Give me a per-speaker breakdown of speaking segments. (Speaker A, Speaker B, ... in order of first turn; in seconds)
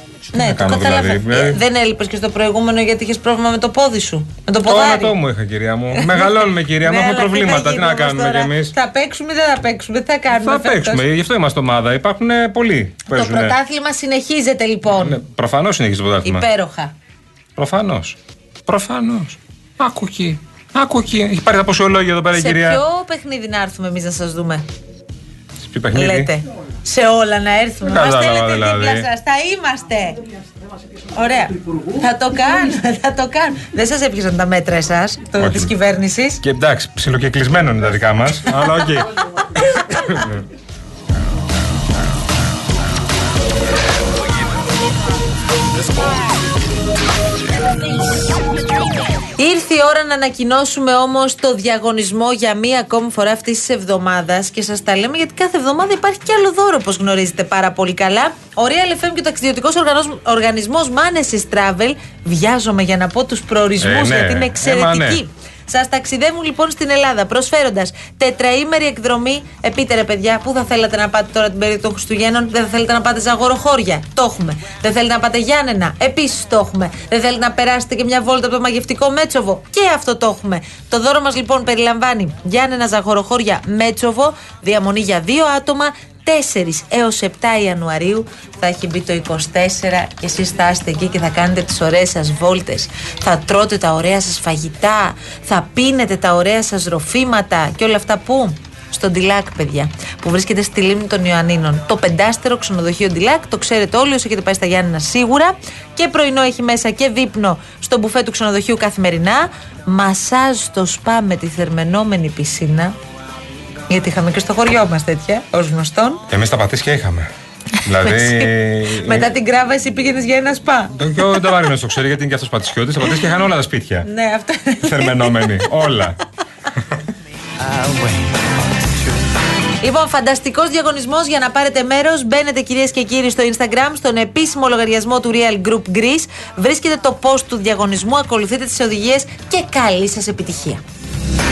Speaker A: 0.3-1.6, 4.6-8.7, 10.3-13.6, 14.8-16.4, 17.6-22.8, 25.6-26.3, 27.8-29.1, 35.4-35.7, 36.4-39.1, 39.9-40.4, 63.8-65.2, 116.3-117.3, 117.8-119.3, 120.9-124.1, 124.8-126.2
Speaker B: 0.3-5.2, 5.9-11.0, 13.1-15.2, 16.2-16.9, 22.3-24.6, 25.9-30.2, 31.1-36.4, 49.4-112.9, 113.9-116.2, 118.0-121.5, 124.0-126.0, 129.8-140.8